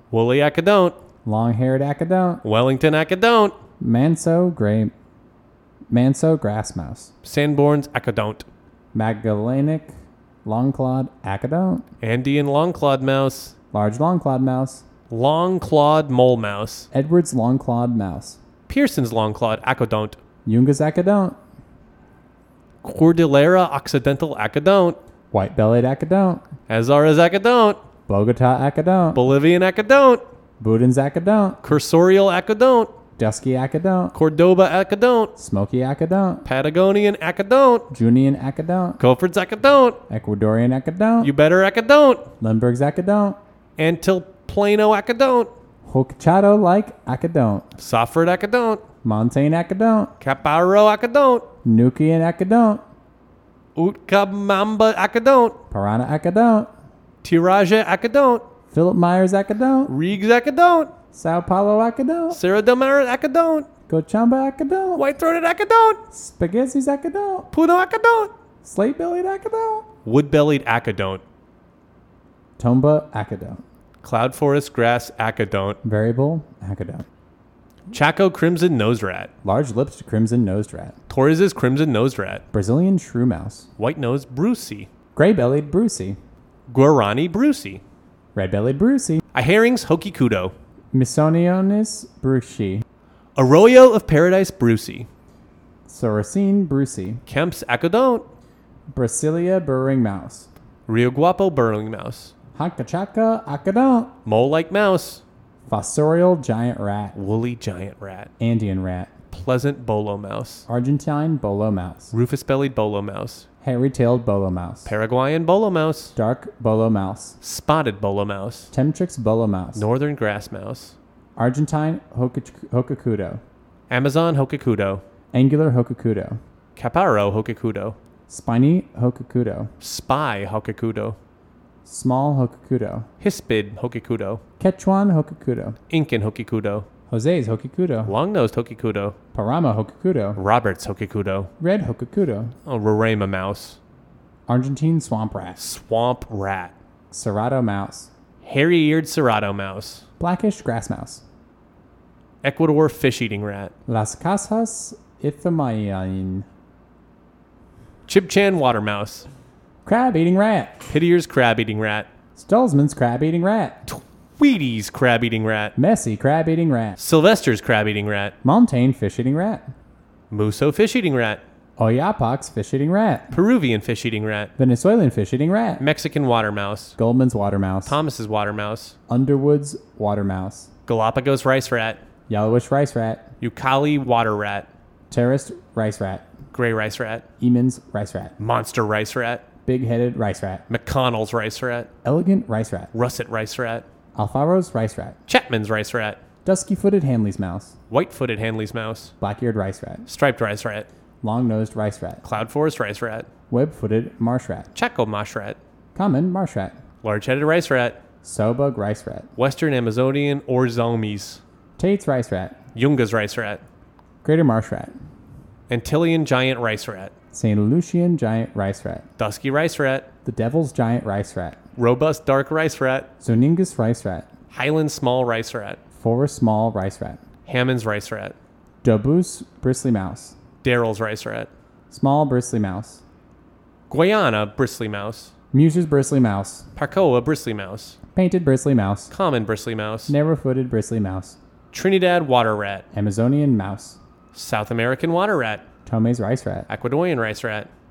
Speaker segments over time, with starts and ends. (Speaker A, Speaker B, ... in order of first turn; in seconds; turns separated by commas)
Speaker A: 0.1-0.9, Speaker B: 1.2-2.4, Speaker A: 2.4-3.5, Speaker B: 3.8-4.9, Speaker B: 5.9-7.1, Speaker A: 7.2-8.5, Speaker B: 8.9-9.9, Speaker B: 10.4-11.8, Speaker A: 12.0-13.5, Speaker B: 13.7-14.8, Speaker A: 15.1-16.9, Speaker B: 16.9-18.4, Speaker A: 18.7-20.2, Speaker B: 20.4-21.4, Speaker A: 22.8-25.0, Speaker B: 25.3-26.4, Speaker A: 26.7-27.8, Speaker B: 28.1-29.2, Speaker A: 29.1-30.2, Speaker B: 30.6-31.6, Speaker A: 31.6-32.9, Speaker B: 33.2-34.1, Speaker A: 34.1-35.3, Speaker B: 35.4-36.4, Speaker A: 36.4-37.9, Speaker B: 37.9-39.0, Speaker A: 39.0-40.0, Speaker B: 40.1-41.3, Speaker A: 41.2-42.3, Speaker B: 42.4-43.4, Speaker A: 43.8-45.5, Speaker B: 45.9-47.6, Speaker A: 47.8-48.8, Speaker B: 49.0-50.1, Speaker A: 50.2-51.5, Speaker B: 51.6-52.8, Speaker A: 53.8-55.6, Speaker B: 55.7-56.7, Speaker A: 57.2-58.5, Speaker B: 58.7-59.9, Speaker A: 59.9-60.9, Speaker B: 61.1-62.4, Speaker A: 62.3-63.7, Speaker B: 63.9-65.0, Speaker A: 64.9-66.0, Speaker B: 66.1-67.5, Speaker A: 67.5-68.3, Speaker B: 68.6-69.9, Speaker A: 70.0-71.2, Speaker B: 72.6-73.6, Speaker A: 74.0-75.8, Speaker B: 75.8-77.0, Speaker A: 77.9-79.3, Speaker B: 79.4-81.0, Speaker A: 81.1-82.4, Speaker B: 82.5-83.7, Speaker A: 83.8-84.9, Speaker B: 85.1-86.2, Speaker A: 86.7-87.8, Speaker B: 88.3-89.2, Speaker A: 89.3-90.5, Speaker B: 90.9-92.8, Speaker A: 93.3-95.1, Speaker B: 95.9-97.2, Speaker A: 97.3-98.3, Speaker B: 98.9-100.5, Speaker A: 100.9-102.3, Speaker B: 102.5-104.2, Speaker A: 104.2-105.2, Speaker B: 105.7-107.2, Speaker A: 107.1-108.3, Speaker B: 108.4-109.1, Speaker A: 109.3-110.7, Speaker B: 110.7-112.1, Speaker A: 112.1-113.5, Speaker B: 113.6-114.9, Speaker A: 114.8-116.1, Speaker B: 116.2-117.4, Speaker A: 117.4-118.7, Speaker B: 118.7-119.9, Speaker A: 119.7-120.9, Speaker B: 121.4-123.4, Speaker A: 123.9-125.0, Speaker B: 125.3-126.4, Speaker A: 126.8-128.0, Speaker B: 128.3-129.7, Speaker A: 129.8-131.2, Speaker B: 131.8-133.1, Speaker A: 133.2-134.4, Speaker B: 134.6-135.8, Speaker A: 135.9-136.8, Speaker B: 137.1-138.2, Speaker A: 138.1-139.2, Speaker B: 139.3-140.4, Speaker A: 140.3-141.5, Speaker B: 141.6-142.5, Speaker A: 142.7-143.8, Speaker B: 144.5-145.6, Speaker A: 145.6-146.7, Speaker B: 147.1-148.1, Speaker A: 148.4-150.0, Speaker B: 150.2-151.2, Speaker A: 152.4-153.7, Speaker B: 153.9-156.4, Speaker A: 158.1-159.3, Speaker B: 159.8-160.9, Speaker A: 160.9-162.1, Speaker B: 162.3-163.8, Speaker A: 163.9-165.8, Speaker B: 165.8-167.0, Speaker A: 167.0-168.3, Speaker B: 168.4-169.7, Speaker A: 170.3-171.4, Speaker B: 171.8-173.3, Speaker A: 173.3-174.5, Speaker B: 174.6-175.8, Speaker A: 175.8-176.9, Speaker B: 177.0-178.0, Speaker A: 177.8-178.9, Speaker B: 179.1-180.7, Speaker A: 180.9-182.0, Speaker B: 182.3-183.3, Speaker A: 183.4-184.7, Speaker B: 185.1-186.2, Speaker A: 186.5-187.2, Speaker B: 187.4-188.3, Speaker A: 188.4-189.4, Speaker B: 189.7-190.6, Speaker A: 190.7-191.9, Speaker B: 192.0-192.9, Speaker A: 192.9-193.8, Speaker B: 194.2-195.2, Speaker A: 195.3-196.2, Speaker B: 196.4-197.7, Speaker A: 197.9-199.1, Speaker B: 199.2-200.1, Speaker A: 200.1-200.9, Speaker B: 201.2-202.2, Speaker A: 202.2-203.3, Speaker B: 203.5-204.7, Speaker A: 204.7-205.6, Speaker B: 205.9-206.8, Speaker A: 207.0-208.0, Speaker B: 208.2-209.3, Speaker A: 209.4-211.4, Speaker B: 211.8-212.6, Speaker A: 212.7-213.6, Speaker B: 214.2-214.9, Speaker A: 215.7-217.1, Speaker B: 217.3-219.0, Speaker A: 219.2-220.1, Speaker B: 220.2-221.6, Speaker A: 221.8-223.1, Speaker B: 223.2-224.3, Speaker A: 224.5-225.8, Speaker B: 226.0-227.2, Speaker A: 227.4-228.3, Speaker B: 228.8-230.3, Speaker A: 230.6-231.5, Speaker B: 231.9-233.0, Speaker A: 233.9-235.3, Speaker B: 235.5-236.7, Speaker A: 236.7-238.0, Speaker B: 238.1-239.1, Speaker A: 239.1-240.2, Speaker B: 240.1-241.4, Speaker A: 241.7-242.8, Speaker B: 242.9-244.0, Speaker A: 244.3-245.6, Speaker B: 245.8-246.7, Speaker A: 246.7-247.7